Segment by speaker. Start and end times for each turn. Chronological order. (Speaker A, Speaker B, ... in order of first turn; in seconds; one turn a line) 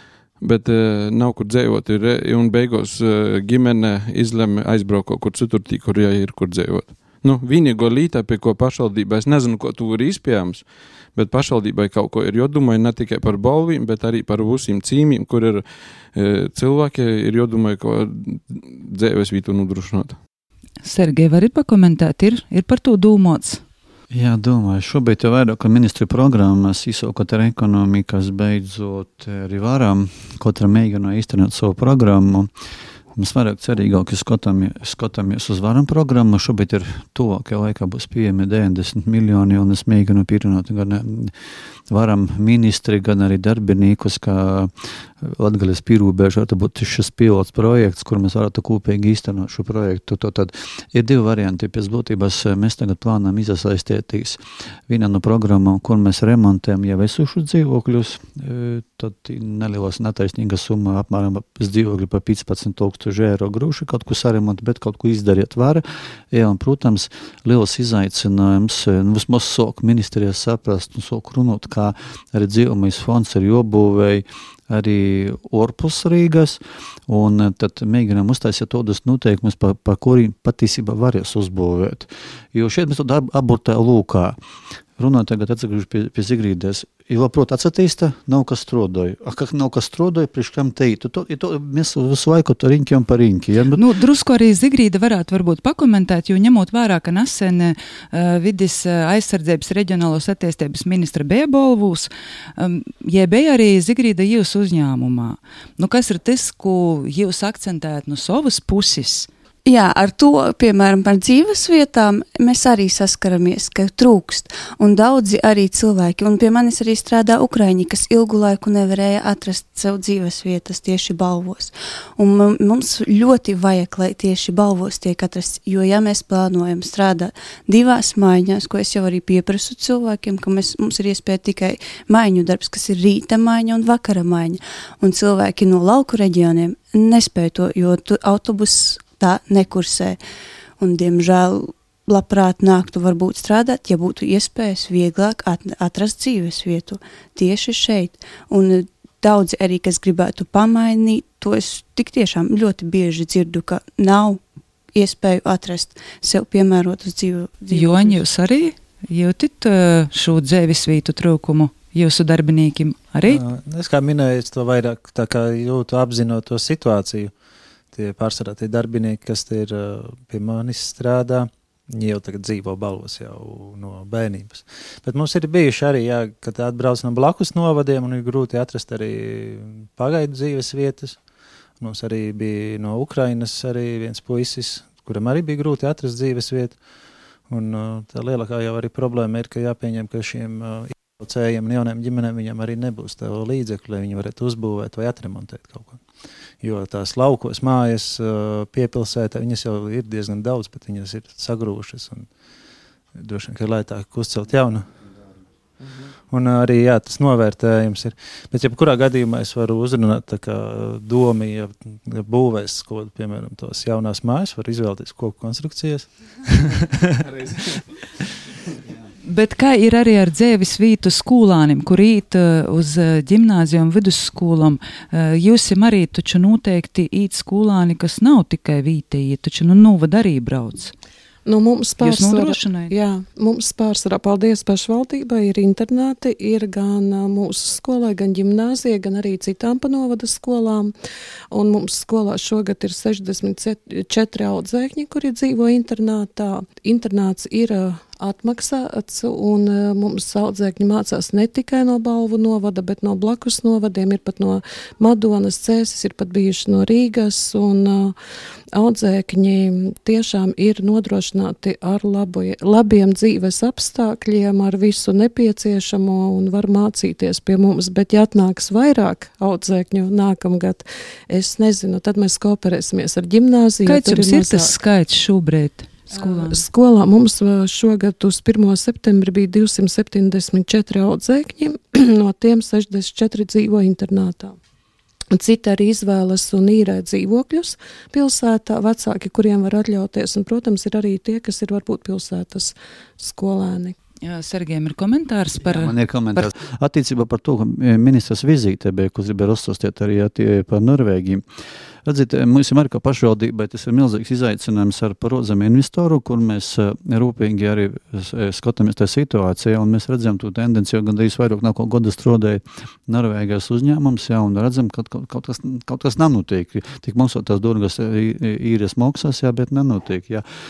Speaker A: 0.4-20.2
Speaker B: 20.8-23.6
Speaker C: 24.1-32.5
Speaker C: 33.1-84.4
Speaker C: 85.0-93.8
Speaker B: 93.7-109.3
Speaker D: 109.7-140.2
Speaker D: 140.8-154.4
Speaker D: 154.9-158.2
Speaker B: 157.7-163.4
Speaker E: 163.3-167.3
Speaker E: 167.9-181.2
Speaker E: 181.8-186.8
Speaker E: 187.5-196.0
Speaker E: 196.6-202.3
Speaker E: 203.1-204.9
Speaker E: 206.3-217.2
Speaker B: 219.2-230.9
Speaker F: 231.4-240.9
Speaker B: 232.0-232.9
Speaker F: 241.5-258.1
Speaker F: 258.7-274.7
Speaker B: 273.8-276.6
Speaker F: 276.1-284.6
Speaker F: 285.3-293.9
Speaker B: 294.2-296.4
Speaker C: 295.6-301.4
Speaker C: 302.0-320.4